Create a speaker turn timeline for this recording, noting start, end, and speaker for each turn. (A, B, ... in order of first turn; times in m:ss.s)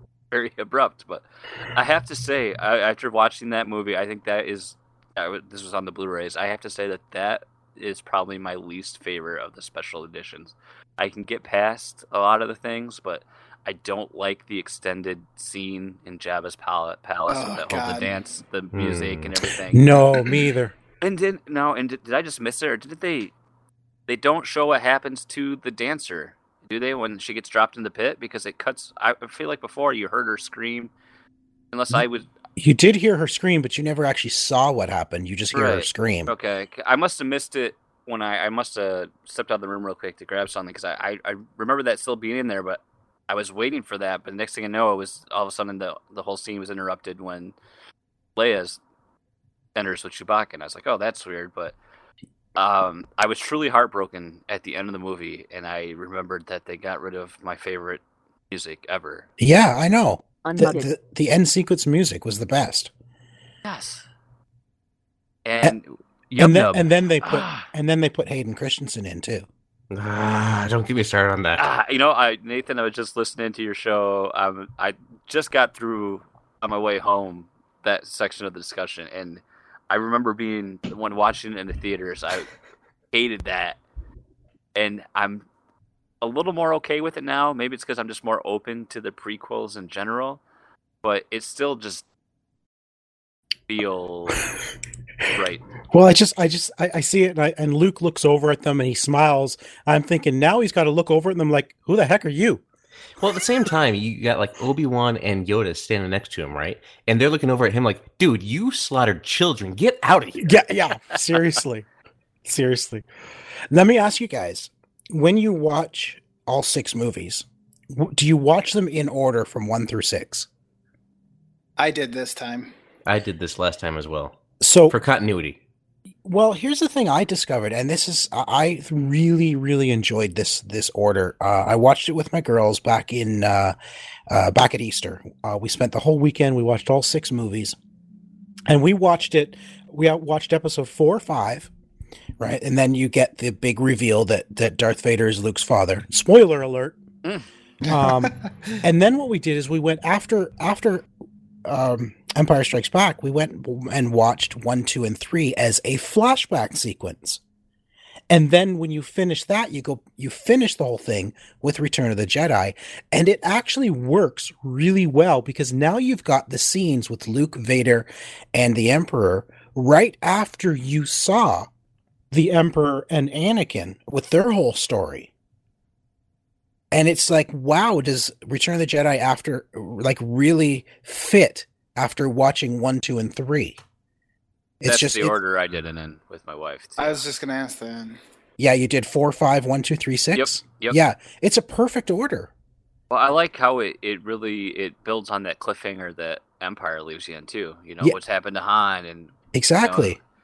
0:00.3-0:20.0 A
0:17.3-0:18.1 B
0:18.7-0:19.3 C
0:19.7-0:20.8 D
0:21.0-0:23.3 A
0:24.1-0:30.9 A
0:31.7-0:32.3 A
0:32.6-0:36.3 D
0:35.5-0:47.6 A
0:48.4-0:48.8 A
0:49.7-0:51.7 A
0:52.6-0:59.2 A
0:59.4-1:02.9 D
1:00.5-1:00.8 A
1:03.6-1:04.0 A
1:05.4-1:07.7 A
1:06.4-1:09.5 D
1:09.9-1:11.7 C
1:11.6-1:22.5 A
1:23.1-1:23.8 A
1:24.7-1:25.4 A
1:26.2-1:30.4 A
1:31.0-1:32.0 A
1:33.7-1:34.4 A
1:35.2-1:35.6 A
1:35.9-1:42.6 D
1:43.2-1:50.7 C
1:50.4-1:51.9 D
1:52.4-1:53.0 D
1:53.7-2:00.5 D
2:01.8-2:02.7 B
2:03.0-2:05.6 C
2:04.6-2:05.0 D
2:06.2-2:13.7 D
2:14.3-2:17.8 D
2:18.7-2:21.7 D
2:22.4-2:27.0 D
2:27.8-2:28.8 B
2:27.9-2:31.0 D
2:31.6-2:37.4 D
2:38.3-2:51.7 D
2:52.3-2:55.3 D
2:56.9-3:03.8 D
3:04.8-3:05.4 D
3:04.8-3:07.2 A
3:07.0-3:08.2 B
3:08.6-3:12.5 D
3:10.3-3:11.0 A
3:13.1-3:20.2 A
3:19.5-3:20.2 D